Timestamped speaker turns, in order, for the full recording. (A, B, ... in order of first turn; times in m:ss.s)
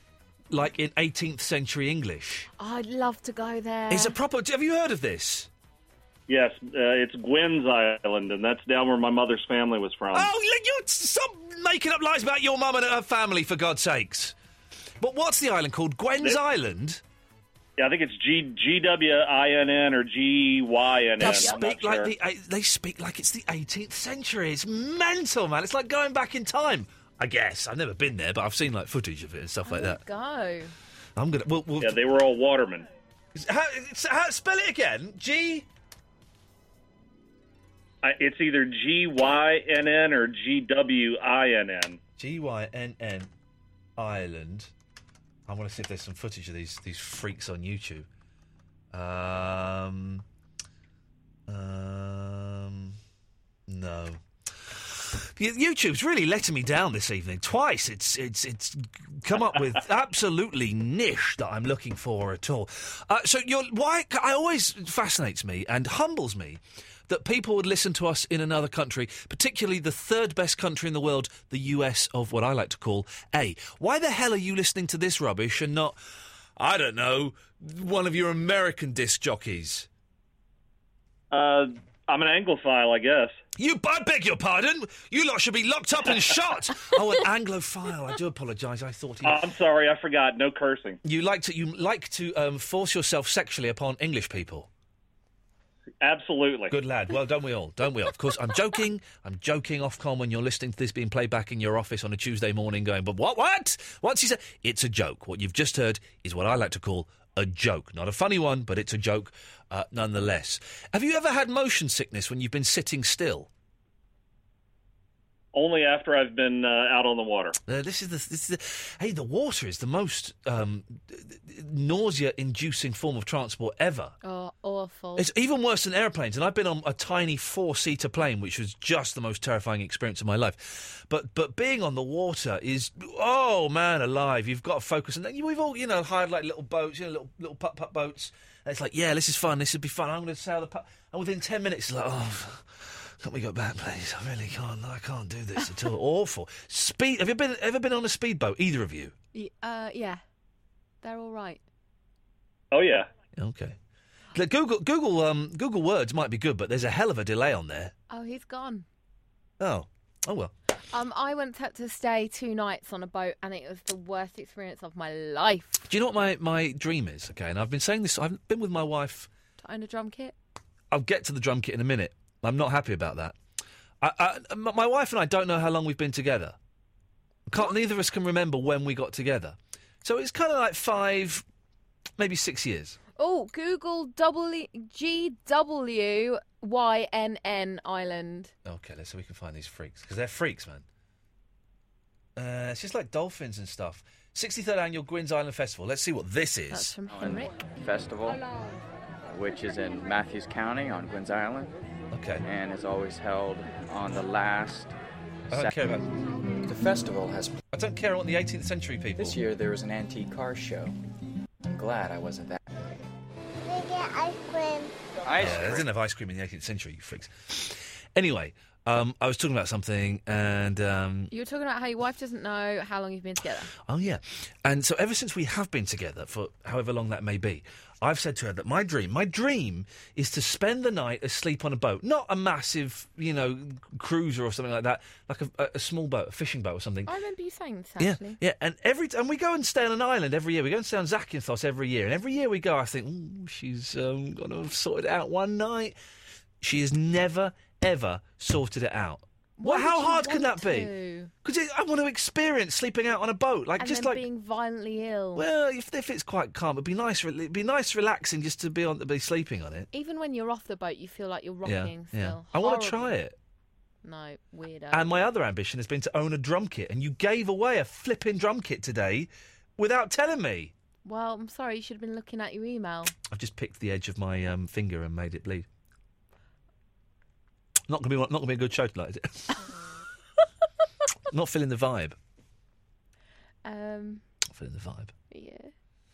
0:00.5-0:02.5 A
0:02.6-0:04.2 B
0:03.9-0:05.5 A
0:06.3-0:10.3 C
0:10.1-0:14.3 A
0:15.0-0:17.0 A
0:17.8-0:22.1 C
0:21.2-0:30.0 A
0:21.2-0:21.5 B
0:29.6-0:30.7 B
0:31.2-0:32.0 A
0:31.8-0:32.9 C
0:33.3-0:35.7 A
0:38.0-0:42.0 C
0:42.2-0:43.3 A
0:44.0-0:44.7 A
0:45.5-0:48.1 A
0:48.9-0:50.2 A
0:51.5-0:53.0 A
0:53.7-1:16.0 A
1:16.6-1:19.9 A
1:21.3-1:23.4 C
1:23.6-1:29.4 A
1:29.2-1:31.0 C
1:31.0-1:34.7 A
1:36.0-1:36.7 C
1:36.7-1:53.5 A
1:55.5-1:57.6 C
1:57.6-2:04.1 A
2:04.2-2:05.3 B
2:05.2-2:29.1 A
2:29.3-2:30.2 B
2:31.0-2:31.6 B
2:32.7-2:33.1 C
2:33.4-2:33.8 A
2:34.3-2:37.9 A
2:38.1-2:38.8 B
2:39.6-2:40.5 A
2:40.9-2:45.9 B
2:45.9-2:49.3 A
2:49.6-2:50.3 B
2:50.9-2:53.4 A
2:54.0-2:56.6 A
2:57.5-3:01.4 A
3:02.2-3:03.0 A
3:03.2-3:08.5 B
3:08.6-3:10.8 A
3:12.4-3:17.0 A
3:16.7-3:17.5 B
3:17.1-3:18.4 D
3:19.3-3:21.7 D
3:22.1-3:22.4 A
3:22.4-3:24.9 D
3:25.5-3:26.1 A
3:26.6-3:27.6 D
3:27.7-3:29.4 A
3:29.2-3:30.9 D
3:31.6-3:32.6 D
3:35.2-3:35.8 D
3:35.4-3:41.3 A
3:41.3-3:43.7 B
3:43.8-3:57.1 A
3:57.0-3:58.4 B
3:58.0-4:06.0 A
4:06.6-4:10.9 A
4:09.6-4:11.3 B
4:11.4-4:14.2 A
4:13.8-4:15.4 B
4:15.3-4:19.9 A
4:19.9-4:23.1 B
4:21.6-4:23.4 A
4:24.0-4:25.2 B
4:24.9-4:30.7 A
4:31.0-4:33.1 B
4:33.3-4:35.6 A
4:37.9-4:39.6 A
4:41.3-4:42.2 A
4:43.6-4:44.2 B
4:44.5-4:45.1 A
4:45.3-4:45.7 B